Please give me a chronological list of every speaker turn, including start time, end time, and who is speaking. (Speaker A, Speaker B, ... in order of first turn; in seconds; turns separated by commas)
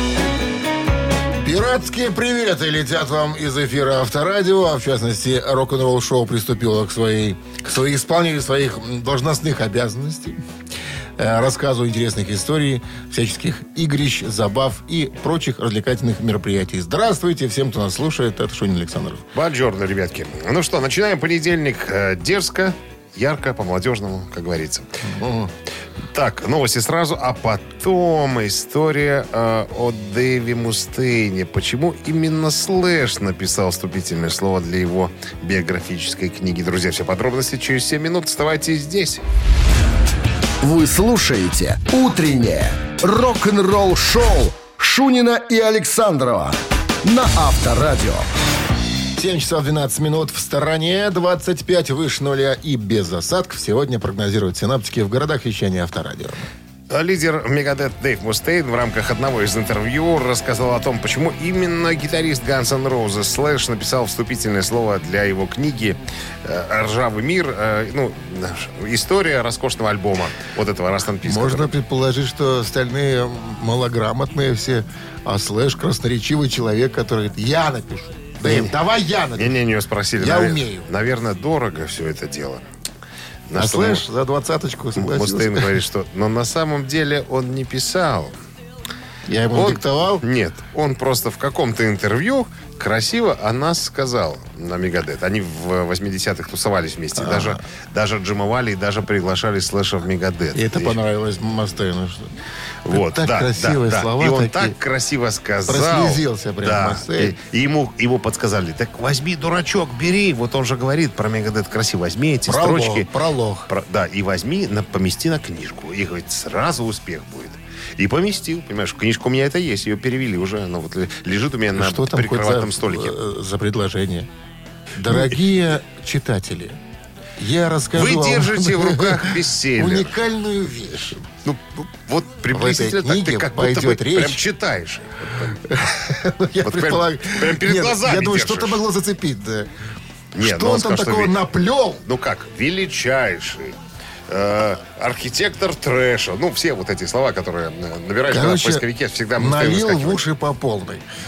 Speaker A: 1.4-10.4, Speaker A: 11.2-19.2, Speaker B: 19.3-24.9, Speaker A: 25.0-25.5, Speaker B: 26.1-39.2, Speaker C: 40.6-48.3, Speaker A: 49.1-56.5, Speaker B: 56.9-71.7, Speaker A: 71.2-79.5, Speaker B: 78.4-78.8, Speaker B: 79.3-82.6, Speaker A: 80.2-80.9, Speaker B: 83.5-84.0, Speaker A: 83.5-85.8, Speaker B: 85.0-88.3, Speaker A: 89.3-90.2, Speaker B: 89.5-101.0, Speaker A: 97.2-97.6, Speaker A: 100.5-102.3, Speaker B: 102.8-113.1, Speaker A: 102.9-104.8, Speaker A: 105.7-107.3, Speaker A: 112.5-113.7, Speaker B: 113.7-123.1, Speaker A: 121.7-124.3, Speaker A: 125.0-126.8, Speaker A: 127.4-131.2, Speaker B: 127.9-130.1, Speaker B: 131.4-135.6, Speaker A: 132.5-134.4, Speaker A: 135.6-139.7, Speaker B: 136.6-138.8, Speaker B: 140.3-141.4, Speaker A: 140.3-142.0, Speaker B: 142.0-143.8, Speaker B: 144.3-150.2, Speaker A: 148.3-148.8, Speaker A: 149.3-151.1